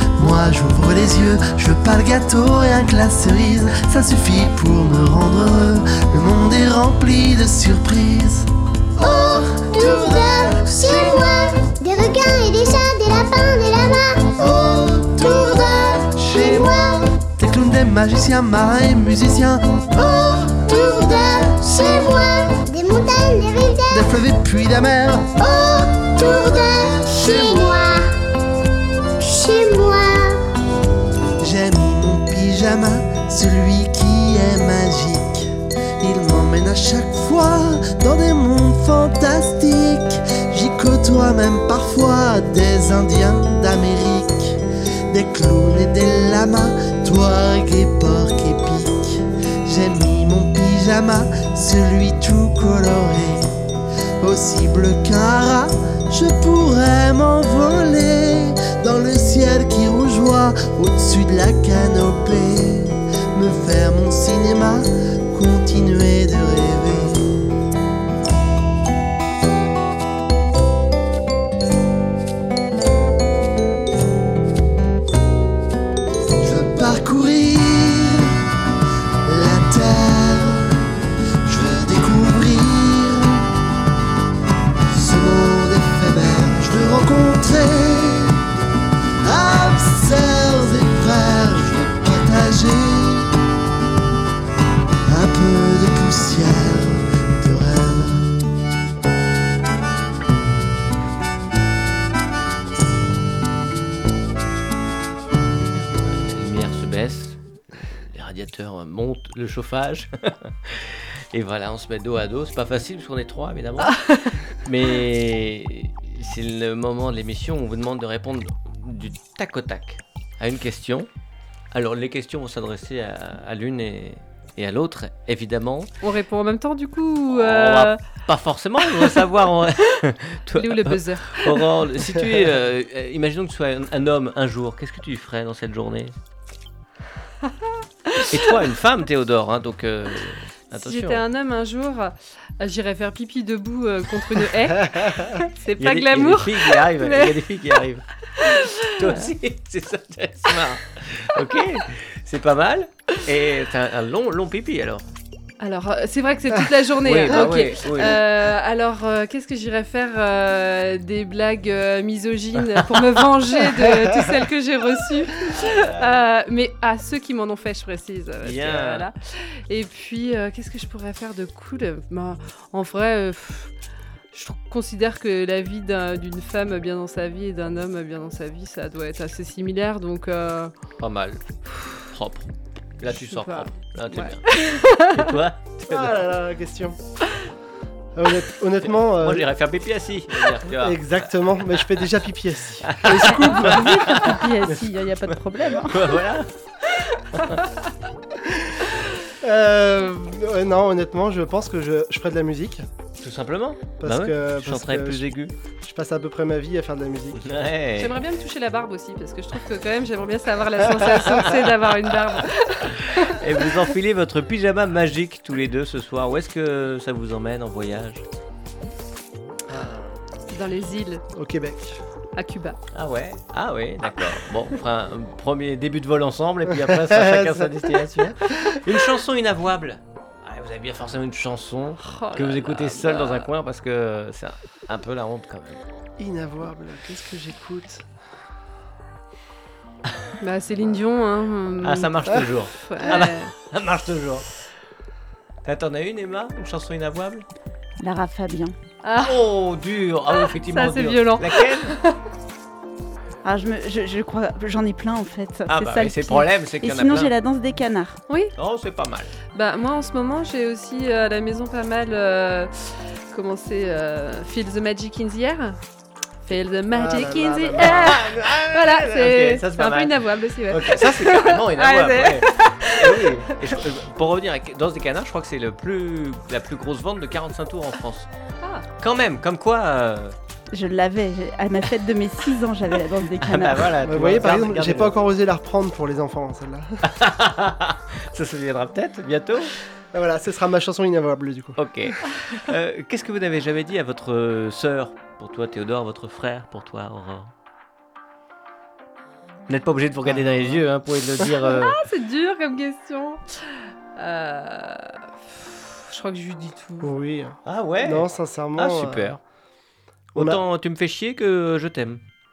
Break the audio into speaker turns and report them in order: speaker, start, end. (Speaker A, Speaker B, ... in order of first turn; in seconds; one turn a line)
Speaker A: 0.1-11.5
Speaker B: 9.0-14.3
Speaker A: 14.4-20.8
Speaker B: 15.2-17.1
Speaker B: 20.2-24.1
Speaker A: 23.9-27.8
Speaker B: 25.4-28.1
Speaker B: 29.2-30.4
Speaker A: 31.4-53.5
Speaker A: 54.2-67.3
Speaker A: 76.4-78.4
Speaker A: 79.2-80.9
Speaker A: 81.4-83.5
Speaker A: 84.9-88.4
Speaker A: 89.2-93.4
Speaker A: 95.1-98.4
Speaker C: 105.7-121.1
Speaker D: 113.9-114.4
Speaker C: 121.7-125.9
Speaker D: 126.0-128.0
Speaker C: 127.3-136.1
Speaker D: 128.8-129.1
Speaker D: 130.6-131.6
Speaker D: 137.7-138.5
Speaker C: 138.3-141.2
Speaker D: 140.7-147.4
Speaker C: 145.8-148.1
Speaker D: 148.3-149.3
Speaker C: 148.9-155.1
Speaker D: 155.6-173.7
Speaker C: 157.0-158.2
Speaker C: 162.6-163.0
Speaker C: 168.4-169.1
Speaker D: 174.3-180.7
Speaker C: 181.0-181.4
Speaker D: 181.7-182.0
Speaker C: 182.0-182.5
Speaker C: 183.0-186.2
Speaker D: 183.0-185.3
Speaker E: 185.9-187.0
Speaker E: 188.2-189.5
Speaker C: 188.8-192.1
Speaker E: 190.7-194.1
Speaker C: 192.8-197.6
Speaker D: 193.5-196.2
Speaker D: 197.0-197.9
Speaker E: 199.4-202.8
Speaker C: 203.2-205.5
Speaker E: 204.0-205.2
Speaker E: 205.8-207.4
Speaker C: 207.4-208.2
Speaker D: 208.0-213.8
Speaker C: 212.9-218.2
Speaker E: 219.7-220.2
Speaker D: 220.5-221.2
Speaker E: 221.3-222.0
Speaker D: 222.3-222.8
Speaker C: 222.9-235.8
Speaker E: 226.9-228.8
Speaker D: 232.0-233.5
Speaker E: 236.2-238.1
Speaker D: 240.4-243.5
Speaker C: 241.8-244.5
Speaker C: 245.6-247.4
Speaker F: 248.0-248.7
Speaker D: 249.0-249.4
Speaker C: 249.2-252.0
Speaker D: 250.3-252.2
Speaker F: 253.4-258.2
Speaker C: 255.7-257.3
Speaker C: 258.6-259.3
Speaker D: 259.5-265.8
Speaker D: 266.4-273.8
Speaker E: 266.9-268.2
Speaker C: 267.8-278.3
Speaker C: 279.0-280.3
Speaker F: 280.7-283.9
Speaker C: 283.4-285.1
Speaker E: 284.0-287.1
Speaker C: 287.0-289.7
Speaker E: 290.1-291.8
Speaker C: 291.8-297.5
Speaker C: 299.7-302.0
Speaker E: 300.2-300.8
Speaker D: 301.6-307.1
Speaker E: 307.0-309.4
Speaker C: 307.6-309.4
Speaker E: 310.3-310.6
Speaker C: 310.3-312.2